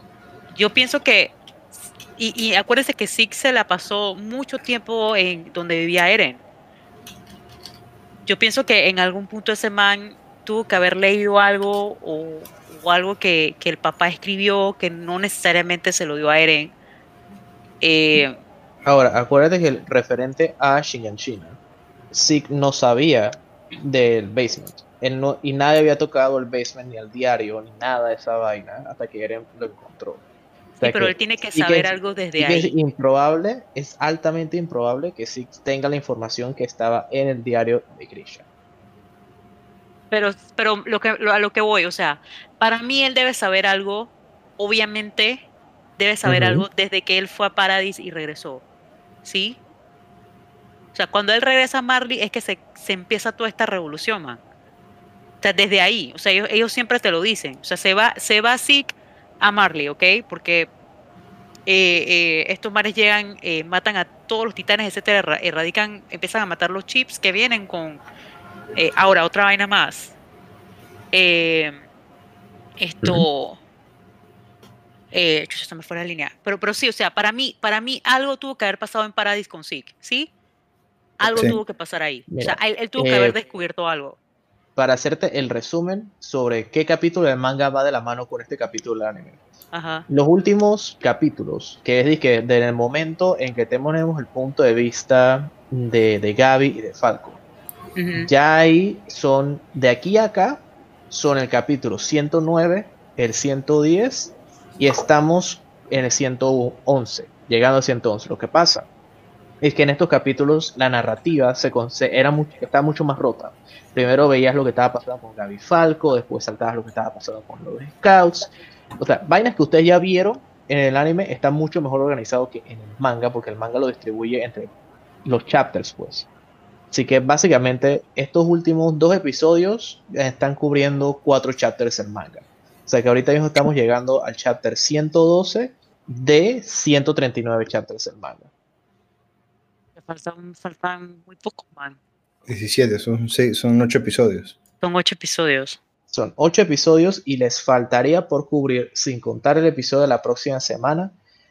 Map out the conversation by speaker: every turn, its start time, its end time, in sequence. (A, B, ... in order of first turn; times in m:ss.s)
0:00.5-0:01.4 A
0:02.2-0:06.4 A
0:08.2-0:16.7 A
0:17.8-0:18.4 A
0:18.8-0:21.6 B
0:22.1-0:30.2 B
0:30.8-0:32.7 A
0:30.8-0:38.4 B
0:40.1-0:45.4 A
0:46.0-0:48.6 A
0:46.2-0:46.6 B
0:49.2-0:49.6 A
0:50.9-0:54.4 A
0:55.4-1:00.7 A
1:01.7-1:08.0 A
1:08.7-1:10.1 A
1:11.1-1:11.8 A
1:12.8-1:13.6 A
1:15.1-1:20.3 A
1:21.2-1:24.2 A
1:21.2-1:21.6 C
1:22.3-1:23.4 B
1:24.8-1:29.4 B
1:29.7-1:30.0 A
1:30.1-1:37.4 B
1:38.0-1:38.3 A
1:38.2-1:48.9 B
1:49.6-2:04.7 B
2:05.2-2:06.3 B
2:06.9-2:18.5 B
2:20.0-2:22.0 A
2:22.5-2:24.6 C
2:24.8-2:25.8 A
2:26.1-2:31.2 B